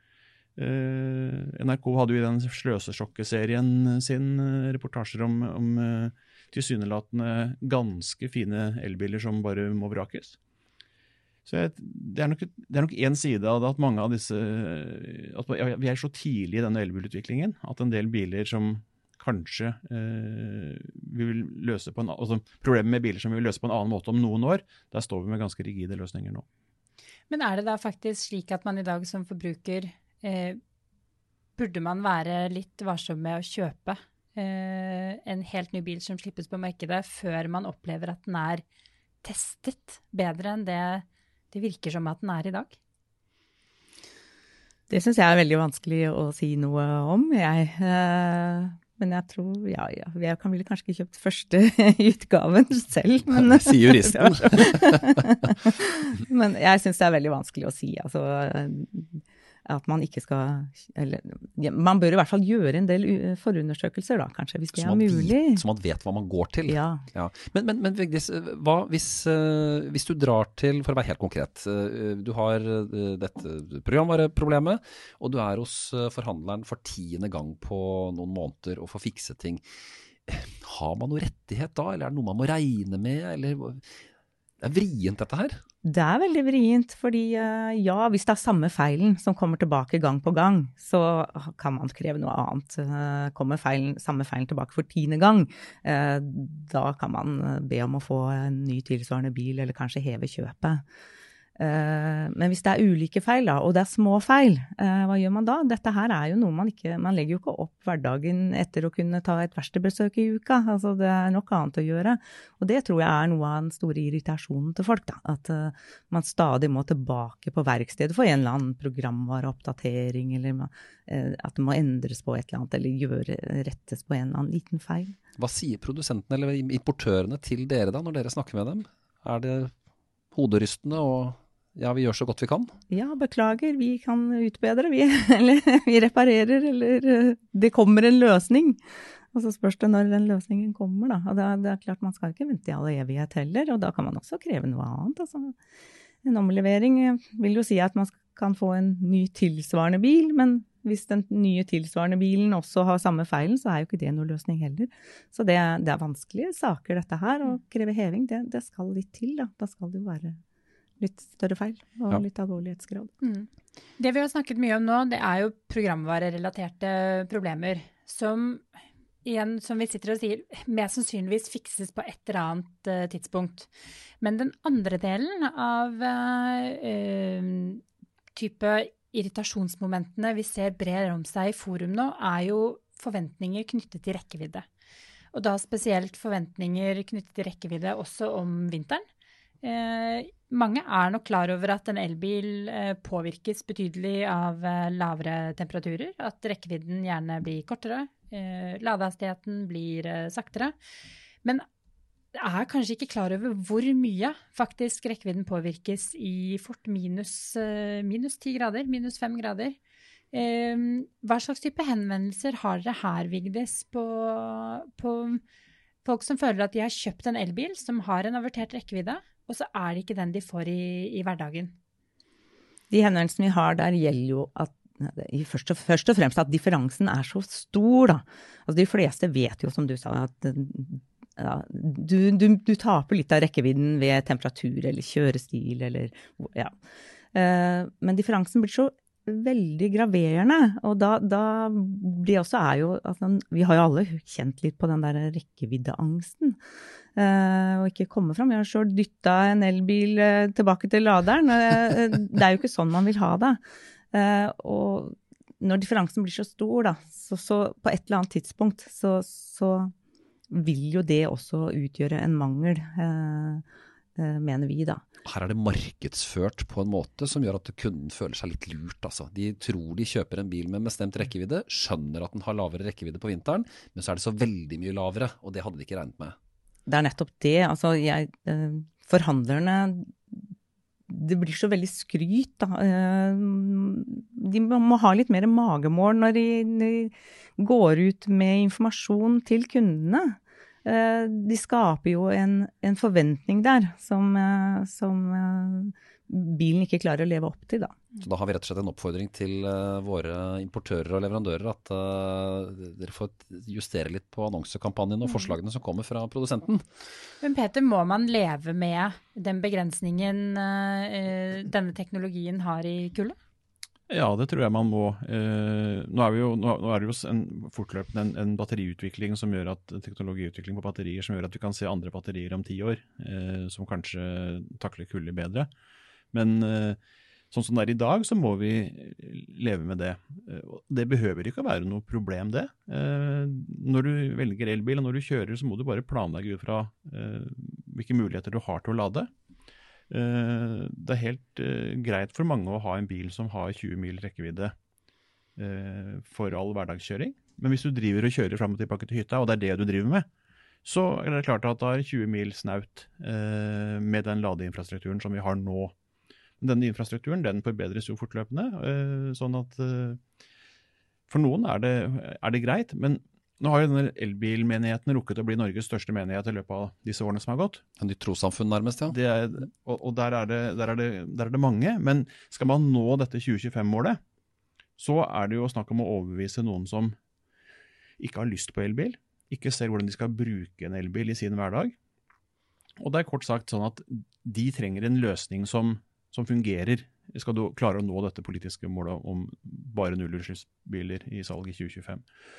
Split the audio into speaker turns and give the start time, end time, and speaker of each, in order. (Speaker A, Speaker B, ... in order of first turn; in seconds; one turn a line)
Speaker A: 0.6-10.4
Speaker A: 11.4-26.4
Speaker B: 27.3-30.6
Speaker B: 31.6-38.6
Speaker B: 39.2-42.8
Speaker C: 44.9-65.6
Speaker D: 53.4-55.3
Speaker D: 64.8-79.6
Speaker C: 66.7-67.0
Speaker D: 80.3-83.8
Speaker D: 84.6-85.6
Speaker C: 85.8-100.8
Speaker C: 101.5-125.2
Speaker D: 125.4-129.7
Speaker D: 130.3-132.8
Speaker C: 132.9-138.8
Speaker C: 139.3-145.5
Speaker C: 146.2-160.4
Speaker C: 161.0-163.1
Speaker B: 163.2-168.6
Speaker B: 169.2-177.8
Speaker B: 178.3-184.7
Speaker B: 185.3-189.0
Speaker B: 189.6-200.7
Speaker B: 202.3-209.8
Speaker B: 210.3-215.4
Speaker B: 216.0-221.7
Speaker C: 222.9-236.7
Speaker C: 237.3-246.6
Speaker C: 247.1-253.6
Speaker C: 254.1-259.9
Speaker C: 260.5-263.6
Speaker C: 264.1-265.0
Speaker D: 265.2-276.3
Speaker C: 276.9-280.5
Speaker C: 281.1-298.0
Speaker D: 298.2-306.8
Speaker B: 307.4-313.4
Speaker A: 314.1-325.7
Speaker A: 326.3-327.0
Speaker A: 327.5-339.3
Speaker A: 340.1-344.7
Speaker A: 345.6-350.2
Speaker A: 350.8-355.9
Speaker A: 356.6-360.2
Speaker A: 361.3-367.8
Speaker D: 368.0-369.1
Speaker A: 369.1-374.2
Speaker A: 375.0-377.1
Speaker A: 378.2-381.9
Speaker A: 383.0-392.2